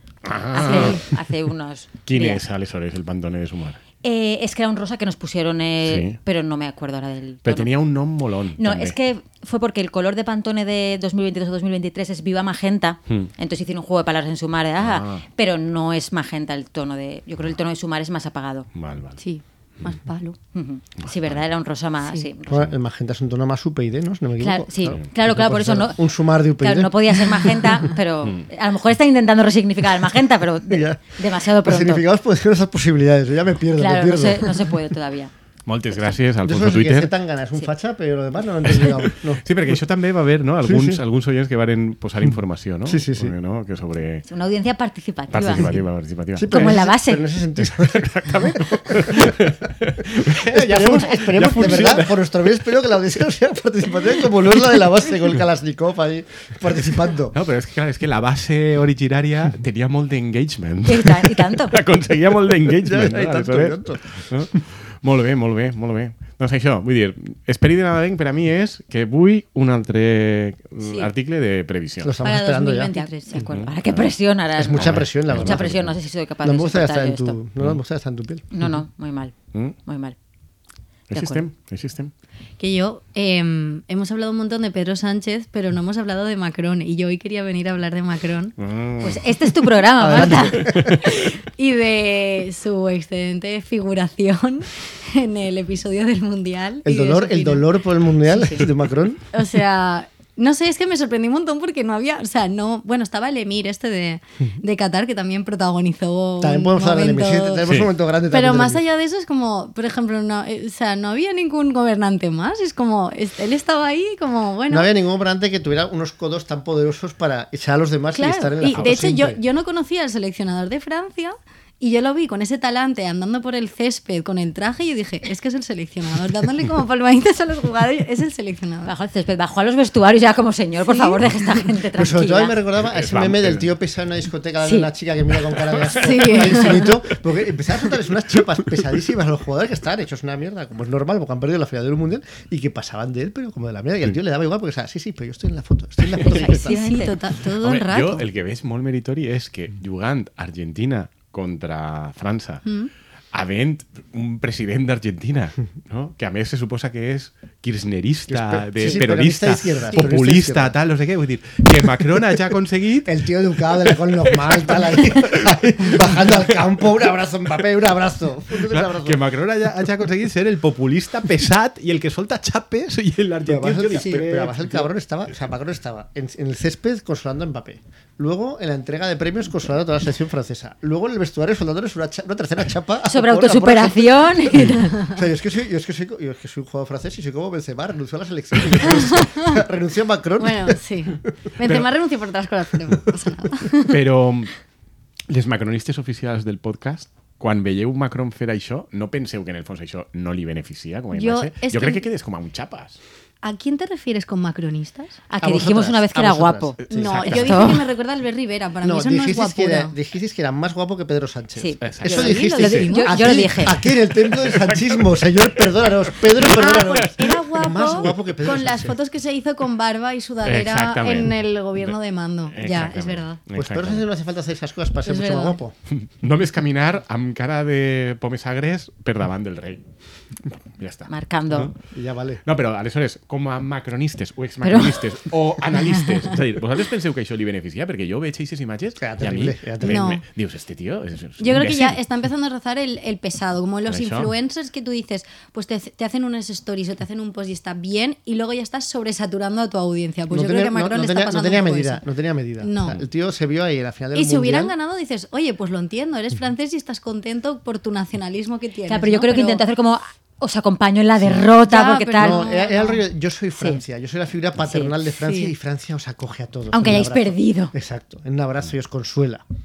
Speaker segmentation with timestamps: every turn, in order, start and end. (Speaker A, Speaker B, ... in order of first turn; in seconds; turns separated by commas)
Speaker A: 0.2-1.2, Speaker B: 0.5-2.4, Speaker A: 2.0-3.8, Speaker B: 4.0-7.7, Speaker A: 5.8-6.2, Speaker A: 7.4-8.9, Speaker B: 8.6-18.7, Speaker A: 14.8-15.2, Speaker A: 18.7-19.2, Speaker C: 19.2-20.4, Speaker B: 20.5-22.7, Speaker A: 21.0-21.4, Speaker D: 22.5-27.2, Speaker B: 24.4-26.0, Speaker B: 26.6-32.0, Speaker D: 30.7-34.7, Speaker B: 33.8-35.3, Speaker A: 35.6-37.1, Speaker D: 36.4-39.4, Speaker A: 38.6-44.2, Speaker D: 40.6-41.0, Speaker D: 42.9-43.3, Speaker B: 44.3-45.7, Speaker A: 45.3-46.7, Speaker D: 46.3-49.5, Speaker B: 46.5-47.2, Speaker A: 47.6-52.3, Speaker D: 50.2-57.3, Speaker A: 57.3-72.2, Speaker B: 60.8-61.7, Speaker D: 62.8-64.0, Speaker B: 70.8-71.1, Speaker D: 72.0-72.9, Speaker C: 72.2-73.4, Speaker B: 72.9-77.4, Speaker A: 73.4-74.0, Speaker D: 74.5-75.9, Speaker A: 74.7-75.9, Speaker D: 76.4-78.4, Speaker B: 78.5-79.3, Speaker B: 79.8-80.2, Speaker A: 81.1-82.1, Speaker B: 81.1-81.4, Speaker C: 82.6-88.5, Speaker A: 88.6-89.3, Speaker B: 89.0-90.7, Speaker D: 90.0-91.0, Speaker C: 90.8-97.7, Speaker D: 96.8-99.2, Speaker C: 99.3-107.6, Speaker D: 106.4-108.8, Speaker A: 107.6-107.9, Speaker C: 108.3-114.9, Speaker D: 114.7-119.4, Speaker C: 118.1-128.9, Speaker A: 118.7-119.1, Speaker B: 128.8-132.6, Speaker C: 130.9-131.2, Speaker D: 131.9-146.8, Speaker A: 132.8-133.7, Speaker B: 134.6-134.9, Speaker A: 135.6-136.7, Speaker C: 136.0-136.9, Speaker B: 146.2-147.2, Speaker C: 146.2-148.2, Speaker A: 147.6-152.6, Speaker C: 152.7-152.9, Speaker A: 153.3-166.7, Speaker D: 158.3-160.8, Speaker D: 163.1-169.2, Speaker A: 168.7-174.9, Speaker D: 173.4-191.2, Speaker B: 183.0-184.8, Speaker C: 184.8-185.1, Speaker C: 189.0-189.4, Speaker C: 190.4-194.0, Speaker A: 191.6-191.9, Speaker A: 193.8-194.5, Speaker A: 195.3-203.0, Speaker C: 201.1-202.0, Speaker C: 203.4-205.2, Speaker B: 205.3-207.8, Speaker D: 205.4-207.7, Speaker A: 206.8-207.7, Speaker C: 206.9-209.9, Speaker D: 208.8-218.9, Speaker B: 211.6-213.8, Speaker A: 211.8-212.7, Speaker C: 212.0-213.3, Speaker A: 214.2-218.2, Speaker C: 216.5-223.4, Speaker A: 220.4-221.9, Speaker A: 222.5-224.0, Speaker D: 223.5-225.7, Speaker C: 225.0-225.6, Speaker A: 225.9-229.8, Speaker A: 230.8-231.7, Speaker B: 231.1-231.7, Speaker D: 231.9-232.4, Speaker A: 232.4-242.0, Speaker B: 234.6-235.0, Speaker D: 239.0-240.2, Speaker C: 239.8-240.2, Speaker C: 241.4-252.0, Speaker A: 243.9-244.3, Speaker D: 250.3-254.7, Speaker C: 252.6-253.0, Speaker C: 254.1-259.6, Speaker B: 258.9-262.5, Speaker C: 261.6-263.0, Speaker D: 262.2-269.4, Speaker B: 264.6-264.9, Speaker C: 265.2-265.5, Speaker B: 266.7-267.7